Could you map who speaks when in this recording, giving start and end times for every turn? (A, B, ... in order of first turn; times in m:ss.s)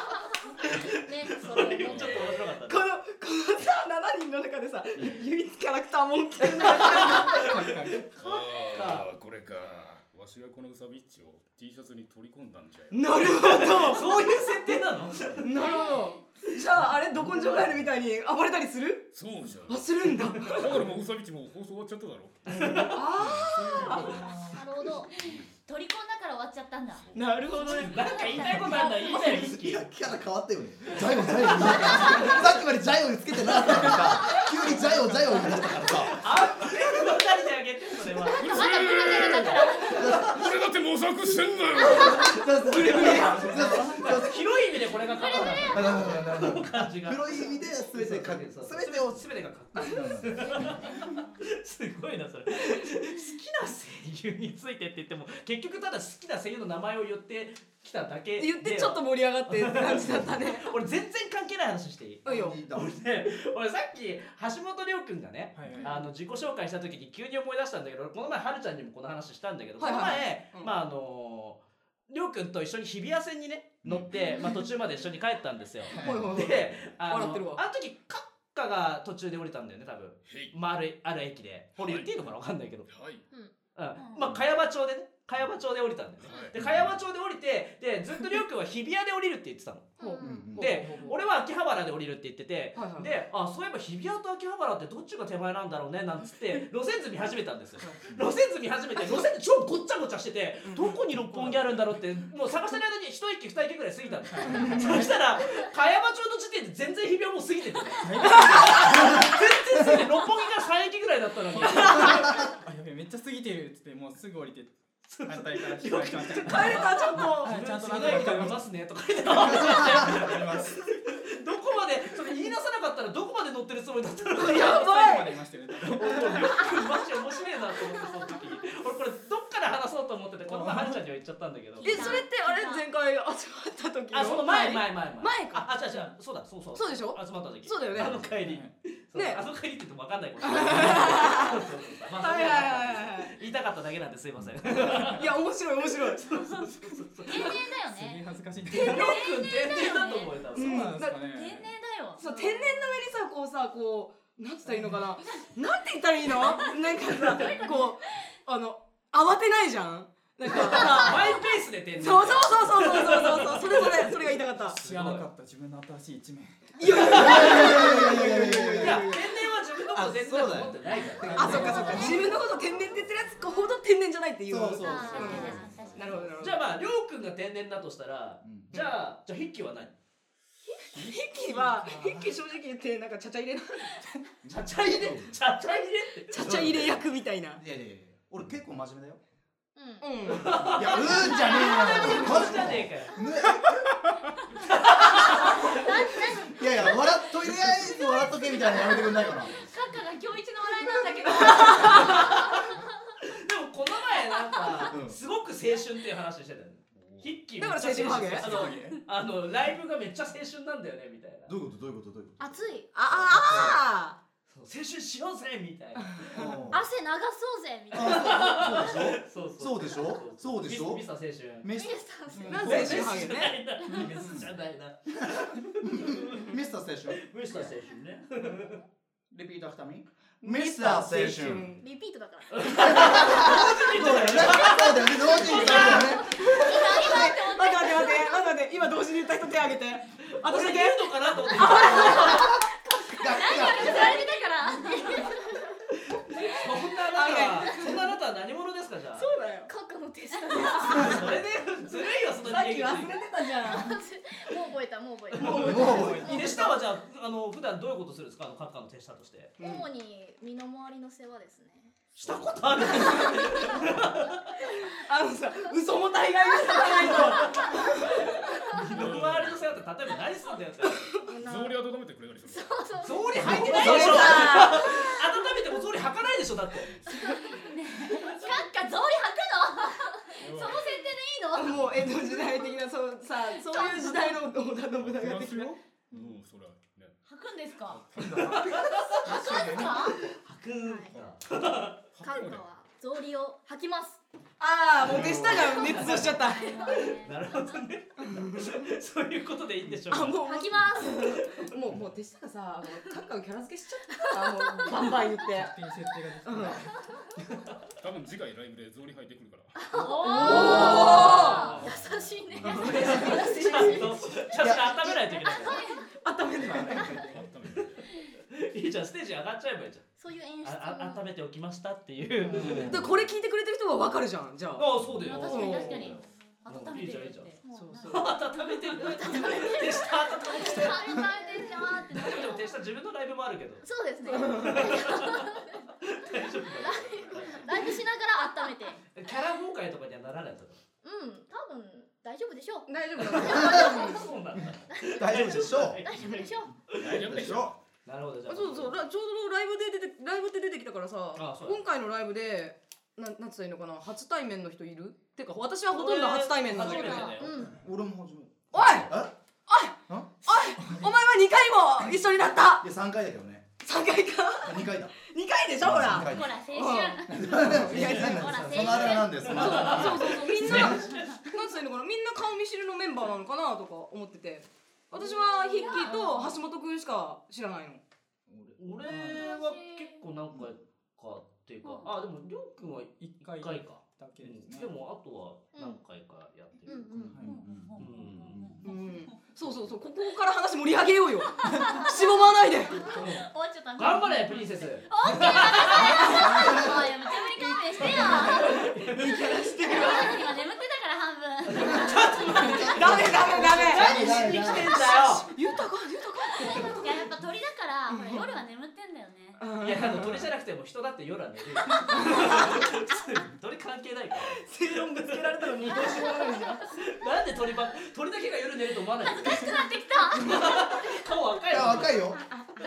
0:00.6-0:02.9 A
0:01.0-0:02.3 B
0:01.8-0:02.3 C
0:02.5-0:07.7 D
0:05.0-0:05.2 C
0:06.5-0:07.6 A
0:07.3-0:08.1 E
0:08.1-0:13.9 C
0:08.2-0:09.1 A
0:12.9-0:14.3 D
0:13.3-0:15.5 A
0:15.4-0:19.1 D
0:15.5-0:16.2 B
0:17.1-0:18.0 C
0:19.1-0:24.0 C
0:19.7-0:20.9 D
0:22.4-0:23.1 A
0:22.9-0:24.3 D
0:23.7-0:24.2 A
0:23.9-0:24.6 E
0:24.5-0:25.1 F
0:25.0-0:29.5 B
0:25.2-0:25.5 C
0:26.9-0:28.1 C
0:27.1-0:28.0 D
0:27.6-0:29.8 A
0:28.7-0:29.5 D
0:29.5-0:36.2 G
0:30.9-0:32.2 A
0:31.5-0:32.5 B
0:31.9-0:32.4 D
0:34.0-0:34.5 B
0:35.5-0:38.5 A
0:38.3-0:42.4 C
0:38.4-0:40.0 F
0:38.4-0:40.3 B
0:39.9-0:40.5 G
0:42.0-0:43.9 D
0:42.2-0:44.4 G
0:42.8-1:22.9 A
0:43.4-0:43.9 E
0:45.1-0:46.0 B
0:45.3-0:50.8 G
0:58.4-1:00.7 D
1:02.2-1:02.6 D
1:02.2-1:02.9 G
1:05.5-1:05.9 E
1:05.8-1:06.1 D
1:09.8-1:10.7 D
1:13.8-1:14.1 C
1:14.2-1:14.5 F
1:15.9-1:17.6 D
1:20.2-1:20.6 C
1:21.8-1:22.3 C
1:22.9-1:23.2 C
1:23.8-1:29.9 A
1:26.2-1:26.9 C
1:30.0-1:30.6 F
1:30.0-1:31.2 D
1:30.2-1:30.9 G
1:30.6-1:52.4 A
1:32.7-1:33.1 D
1:40.6-1:41.0 D
1:44.3-1:45.2 E
1:44.5-1:45.0 D
1:48.0-1:49.2 E
1:48.2-1:49.3 D
1:51.6-1:58.6 E
1:51.6-1:52.1 D
1:55.1-2:05.0 A
1:56.4-1:58.4 D
1:59.3-2:00.5 G
1:59.4-2:00.8 E
2:04.3-2:05.4 D
2:04.4-2:06.7 E
2:05.8-2:12.1 A
2:10.5-2:11.0 E
2:11.8-2:12.9 B
2:11.8-2:15.8 D
2:14.1-2:25.4 A
2:16.7-2:18.2 D
2:18.3-2:18.7 E
2:19.1-2:19.4 D
2:20.4-2:23.3 D
2:25.0-2:26.3 D
2:26.2-2:27.7 A
2:26.3-2:26.6 B
2:27.2-2:30.5 B
2:27.8-2:29.1 E
2:28.7-2:30.9 A
2:28.7-2:29.2 D
2:30.5-2:31.2 D
2:30.6-2:31.7 E
2:31.1-2:32.2 B
2:32.2-2:41.4 D
2:32.2-2:33.0 F
2:36.4-2:38.1 B
2:37.2-2:37.6 A
2:40.4-2:45.2 A
2:40.7-2:41.3 B
2:42.0-2:44.8 D
2:44.6-2:47.3 E
2:46.8-2:49.3 D
2:46.8-2:52.3 A
2:47.0-2:49.2 G
2:49.9-2:52.2 G
2:50.9-2:52.4 B
2:51.3-2:56.6 D
2:53.5-2:53.7 B
2:54.5-2:55.9 G
2:54.8-2:56.4 B
2:55.3-2:55.6 F
2:56.4-2:59.9 A
2:58.4-2:58.8 G
3:00.7-3:04.2 D
3:04.4-3:05.4 G
3:04.5-3:06.5 A
3:06.3-3:07.6 D
3:06.4-3:09.2 G
3:09.8-3:12.4 F
3:10.0-3:12.5 D
3:10.3-3:13.2 A
3:10.6-3:14.0 G
3:14.6-3:15.8 A
3:15.0-3:22.8 B
3:16.5-3:19.6 G
3:21.0-3:22.0 D
3:21.5-3:22.6 A
3:23.2-3:31.5 A
3:24.3-3:24.8 B
3:24.9-3:25.2 G
3:26.9-3:27.4 C
3:27.6-3:28.7 D
3:28.0-3:29.0 E
3:31.5-3:33.8 G
3:32.4-3:33.0 F
3:32.9-3:34.2 D
3:34.5-3:36.5 A
3:36.0-3:36.6 D
3:36.3-3:36.8 G
3:36.7-3:39.0 F
3:37.9-3:41.1 G
3:37.9-3:41.7 A
3:41.6-3:43.2 G
3:41.7-3:42.9 F
3:42.4-3:46.5 A
3:42.5-3:43.6 D
3:43.9-3:44.5 G
3:45.8-3:47.6 G
3:47.1-3:48.8 A
3:49.3-3:51.7 G
3:50.4-3:51.8 D
3:51.8-3:53.7 F
3:52.5-3:56.3 A
3:52.8-3:56.4 G
3:55.3-3:58.5 B
3:55.5-3:57.3 F
3:56.3-4:02.6 D
4:00.3-4:02.6 A
4:01.9-4:02.3 B
4:02.2-4:02.5 G
4:03.2-4:03.9 G
4:03.2-4:05.4 B
4:03.7-4:04.1 A
4:03.9-4:04.4 F
4:04.9-4:05.3 F
4:06.3-4:09.3 A
4:07.0-4:08.0 D
4:09.1-4:09.7 D
4:09.7-4:11.4 F
4:10.5-4:14.0 D
4:11.0-4:13.2 A
4:13.6-4:16.8 F
4:15.3-4:19.6 A
4:15.4-4:16.6 D
4:15.4-4:16.4 G
4:19.6-4:19.9 D
4:19.6-4:21.9 F
4:22.2-4:24.5 A
4:22.2-4:22.9 C
4:22.9-4:23.5 D
4:22.9-4:24.0 F
4:24.8-4:28.9 D
4:26.5-4:28.8 F
4:27.0-4:28.2 A
4:28.7-4:31.2 A
4:28.9-4:29.8 C
4:30.8-4:31.2 D
4:31.2-4:31.9 F
4:31.3-4:33.1 C
4:32.4-4:35.3 F
4:33.0-4:37.0 A
4:33.3-4:35.0 D
4:33.7-4:34.3 G
4:37.1-4:42.6 B
4:37.1-4:37.6 F
4:38.1-4:38.7 F
4:40.4-4:41.0 C
4:40.6-4:41.6 F
4:41.6-4:45.8 D
4:43.5-4:44.4 B
4:45.0-4:47.2 C
4:46.1-4:46.4 F
4:47.2-4:48.1 B
4:47.9-4:48.8 C
4:48.2-4:49.9 E
4:48.5-4:49.2 A
4:49.2-4:50.2 B
4:50.2-4:52.0 A
4:50.8-4:51.2 F
4:51.1-4:51.4 C
4:52.1-4:52.6 C
4:52.2-4:54.2 F
4:54.6-4:56.8 D
4:55.0-5:00.4 A
4:55.1-4:55.4 G
4:55.7-4:57.8 B
4:58.2-4:58.8 D
5:00.1-5:05.7 D
5:00.4-5:01.4 F
5:01.2-5:01.7 A
5:04.3-5:05.2 F
5:05.5-5:06.9 E
5:06.4-5:06.8 D
5:08.0-5:10.0 C
5:09.8-5:14.4 F
5:09.9-5:11.9 B
5:10.2-5:11.7 D
5:11.5-5:13.0 C
5:12.6-5:14.2 D
5:12.8-5:15.8 A
5:14.5-5:15.2 G
5:15.3-5:16.1 B
5:15.5-5:15.9 F
5:16.2-5:17.4 D
5:16.9-5:17.2 F
5:17.2-5:18.0 C
5:18.5-5:20.1 A
5:20.2-5:21.2 F
5:20.6-5:23.0 A
5:22.4-5:23.1 G
5:22.6-5:26.2 D
5:24.8-5:31.2 A
5:25.2-5:32.7 B
5:27.6-5:28.3 F
5:27.7-5:28.3 D
5:28.9-5:32.5 F
5:32.1-5:38.0 A
5:33.8-5:35.8 F
5:34.3-5:34.8 D
5:36.8-5:39.0 F
5:39.1-5:40.8 A
5:41.0-5:44.3 F
5:42.9-5:44.4 D
5:43.3-5:47.5 A
5:44.6-5:46.2 G
5:44.9-5:46.9 F
5:47.0-5:47.8 C
5:47.0-5:47.7 G
5:48.0-5:49.0 A
5:48.5-5:57.4 D
5:51.3-5:51.8 A
5:55.9-5:57.5 A
5:56.9-5:57.4 B
5:56.9-5:57.8 F
5:57.5-5:59.3 G
5:58.7-6:02.9 D
6:00.1-6:01.0 G
6:02.8-6:03.7 G
6:03.8-6:08.6 D
6:04.6-6:05.2 G
6:05.8-6:06.5 G
6:06.2-6:10.1 B
6:07.3-6:11.1 G
6:08.2-6:11.4 A
6:09.4-6:18.0 D
6:10.9-6:11.4 B
6:15.2-6:16.6 B
6:18.5-6:18.8 G
6:18.8-6:27.1 A
6:19.1-6:19.4 E
6:19.2-6:20.0 B
6:23.2-6:24.9 E
6:25.7-6:26.0 F
6:26.8-6:27.5 F
6:27.1-6:28.8 G
6:27.4-6:29.5 B
6:28.0-6:28.6 A
6:28.8-6:33.1 D
6:31.4-6:43.5 B
6:33.1-6:33.4 A
6:34.0-6:36.3 A
6:36.0-6:36.5 D
6:36.4-6:37.0 G
6:38.0-6:40.4 D
6:38.0-6:39.6 A
6:41.7-6:45.5 A
6:42.6-6:47.3 D
6:43.1-6:44.9 G
6:46.6-6:49.8 B
6:48.1-6:48.5 D
6:48.1-6:48.5 F
6:49.6-6:50.5 D
6:49.8-7:02.4 A
6:51.9-6:52.5 B
6:52.0-6:52.8 D
6:54.4-6:56.9 D
6:55.9-6:56.7 F
6:56.0-6:56.4 B
6:59.2-7:00.8 B
7:01.7-7:02.4 G